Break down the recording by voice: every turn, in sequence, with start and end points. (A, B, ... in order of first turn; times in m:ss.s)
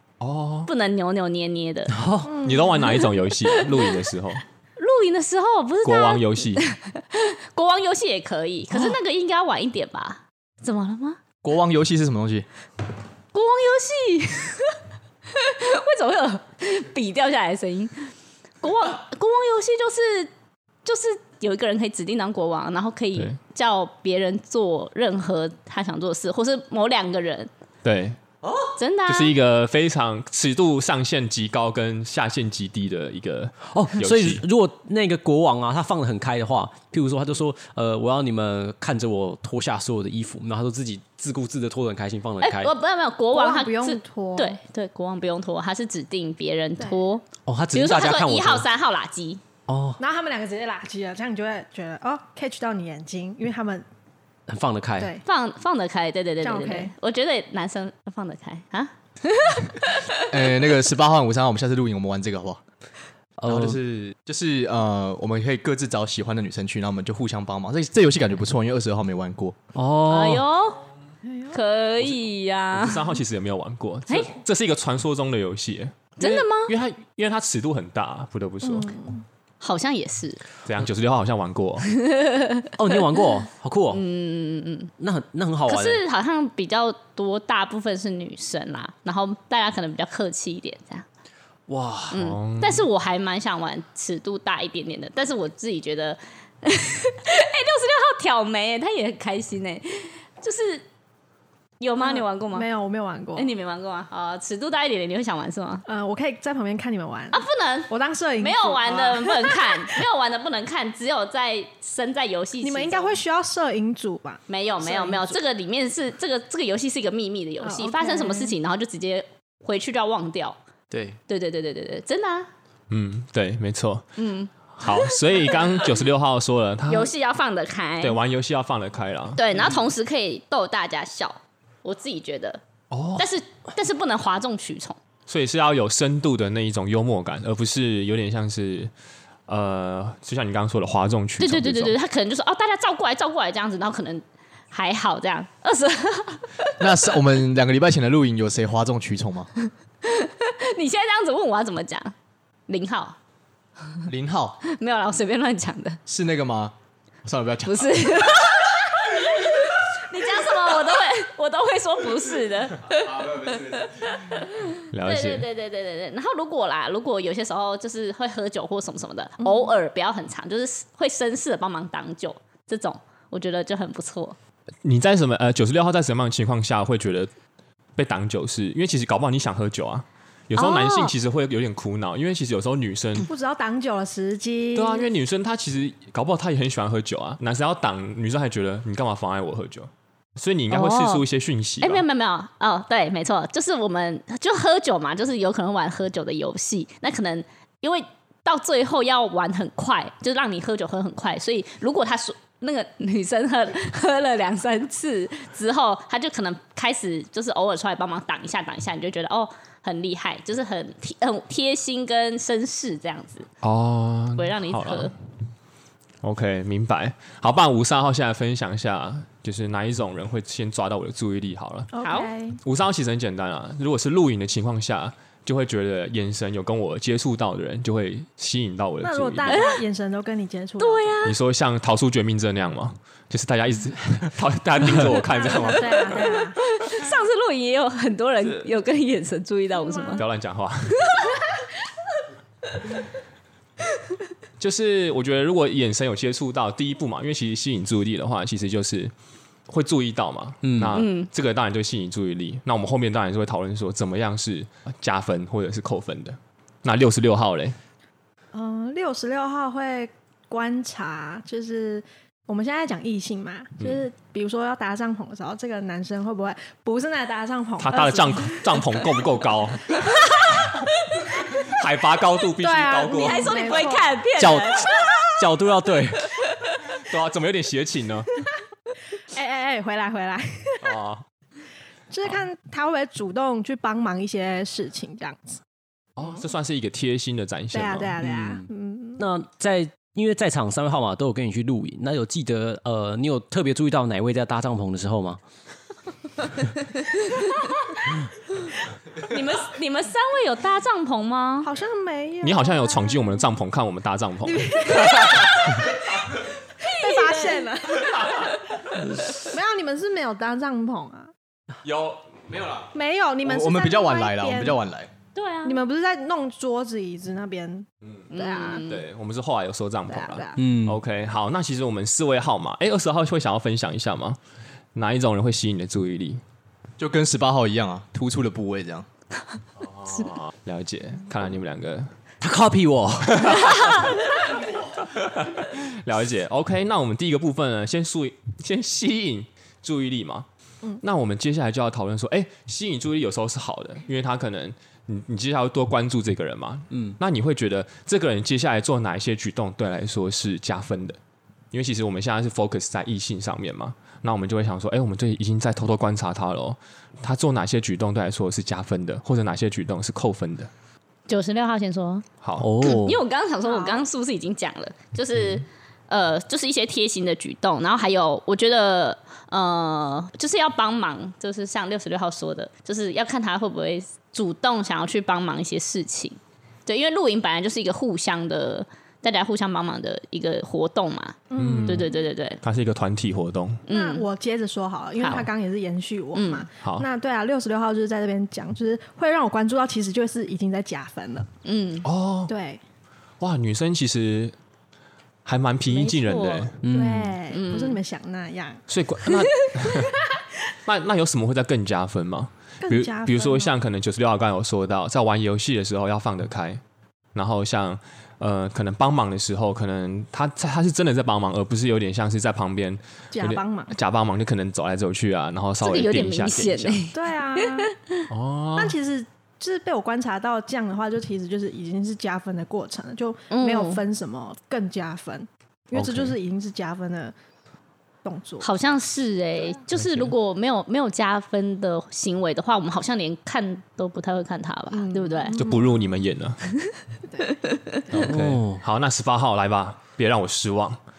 0:00.2-0:00.7 A
0:00.7-0:02.0 B
0:01.9-0:02.4 C
0:02.3-0:02.8 D
0:02.4-0:04.4 A
0:03.0-0:03.9 B
0:04.8-0:11.2 B
0:05.8-0:06.6 A
0:11.4-0:12.5 E
0:13.3-0:18.1 B
0:18.6-0:20.3 B
0:20.8-0:27.5 B
0:27.8-0:28.2 A
0:28.8-0:29.4 B
0:29.1-0:34.4 A
0:33.7-0:42.7 C
0:42.4-0:49.4 B
0:43.3-0:44.6 D
0:47.5-0:48.6 C
0:49.7-0:50.0 C
0:50.0-0:53.9 D
0:54.5-0:55.1 C
0:55.0-0:55.2 D
0:55.2-1:00.2 B
0:56.4-0:56.9 D
1:00.3-1:02.6 E
1:03.4-1:03.8 C
1:03.5-1:09.6 E
1:09.8-1:10.5 C
1:10.1-1:10.8 B
1:11.3-1:11.6 D
1:11.5-1:13.1 B
1:12.7-1:19.0 A
1:16.2-1:16.7 B
1:18.6-1:19.2 D
1:19.6-1:20.4 B
1:20.7-1:21.9 A
1:21.9-1:23.0 B
1:22.8-1:24.0 C
1:23.9-1:24.9 B
1:25.0-1:26.0 C
1:25.7-1:31.1 B
1:31.7-1:32.2 C
1:32.1-1:40.8 B
1:32.1-1:32.8 A
1:41.8-1:42.7 B
1:42.0-1:43.5 D
1:43.4-1:45.8 B
1:45.9-1:50.0 D
1:47.3-1:53.2 B
1:52.6-1:55.4 D
1:54.5-2:00.6 B
1:57.6-1:58.6 D
2:00.9-2:01.2 C
2:01.3-2:02.5 B
2:02.9-2:04.1 A
2:04.2-2:05.9 B
2:04.8-2:07.1 A
2:06.9-2:08.2 B
2:08.0-2:09.4 A
2:09.4-2:12.6 B
2:12.9-2:13.3 A
2:13.2-2:15.0 B
2:15.3-2:18.9 A
2:19.5-2:22.0 A
2:21.4-2:26.7 B
2:26.8-2:29.5 E
2:30.0-2:32.1 B
2:32.7-2:33.2 B
2:34.0-2:34.6 E
2:34.6-2:36.0 B
2:36.1-2:37.9 E
2:37.6-2:54.4 B
2:44.9-2:45.4 A
2:49.4-2:49.7 D
2:54.8-2:57.3 A
2:58.0-3:03.3 A
3:00.6-3:01.1 B
3:03.3-3:05.1 D
3:04.8-3:12.0 A
3:10.7-3:11.2 B
3:11.8-3:33.5 B
3:33.6-3:35.1 A
3:34.4-3:35.1 B
3:36.2-3:41.9 A
3:41.9-3:42.6 D
3:42.0-3:42.3 B
3:42.6-3:49.6 A
3:49.0-3:51.2 D
3:49.5-3:49.8 B
3:50.8-3:51.4 B
3:51.2-3:56.4 A
3:55.3-3:56.6 D
3:56.7-4:00.2 B
3:59.8-4:00.2 D
4:00.2-4:01.1 A
4:00.9-4:01.4 B
4:04.6-4:09.1 A
4:09.7-4:17.8 A
4:10.6-4:11.0 C
4:11.0-4:11.3 B
4:18.5-4:28.8 D
4:27.8-4:30.0 A
4:31.4-4:33.6 A
4:32.6-4:34.2 D
4:33.1-4:35.1 B
4:34.4-4:36.4 C
4:37.0-4:38.4 A
4:39.2-4:41.0 D
4:40.8-4:41.2 A
4:42.1-4:45.6 D
4:46.2-4:48.2 A
4:47.7-4:49.3 D
4:48.2-4:55.4 C
4:57.0-4:57.8 B
4:59.2-5:01.7 B
5:01.6-5:03.4 D
5:02.4-5:05.7 A
5:04.4-5:06.0 D
5:06.8-5:08.5 D
5:06.8-5:08.7 B
5:09.4-5:11.3 D
5:11.9-5:12.9 E
5:12.9-5:14.8 D
5:13.4-5:15.1 E
5:15.4-5:15.8 B
5:15.6-5:18.9 D
5:18.3-5:19.0 B
5:18.8-5:24.4 A
5:20.1-5:20.6 D
5:20.6-5:21.0 C
5:24.9-5:26.4 A
5:27.0-5:29.1 E
5:29.8-5:32.1 A
5:32.4-5:33.9 C
5:33.3-5:34.1 A
5:35.0-5:40.5 A
5:41.0-5:51.2 A
5:46.9-5:47.2 C
5:51.7-6:00.7 A
6:01.3-6:02.3 B
6:02.4-6:02.7 A
6:02.6-6:03.2 C
6:02.8-6:22.6 B
6:03.6-6:04.0 D
6:05.4-6:05.6 A
6:21.5-6:22.1 D
6:21.6-6:22.1 A
6:22.6-6:23.8 A
6:23.9-6:24.3 B
6:23.9-6:31.5 D
6:25.2-6:25.5 B
6:26.3-6:26.7 B
6:26.8-6:27.1 A
6:31.6-6:32.1 B
6:32.0-6:32.5 A
6:32.5-6:32.8 D
6:33.4-6:34.6 A
6:35.4-6:36.8 A
6:35.9-6:36.7 B
6:36.8-6:37.4 C
6:36.9-6:38.8 D
6:37.5-6:38.0 B
6:38.9-6:40.1 A
6:40.8-6:46.8 A
6:42.8-6:43.7 D
6:47.4-6:57.0 A
6:53.3-6:54.0 D
6:55.8-6:58.2 B
6:57.1-6:57.9 D
6:58.3-6:59.0 A
6:58.8-7:07.3 D
7:03.5-7:04.0 B
7:05.9-7:06.4 A
7:08.2-7:08.7 D
7:08.6-7:15.6 B
7:09.9-7:10.3 A
7:14.9-7:16.0 D
7:15.6-7:16.6 A
7:17.3-7:17.5 D
7:17.5-7:18.0 B
7:18.1-7:18.8 C
7:18.1-7:21.0 A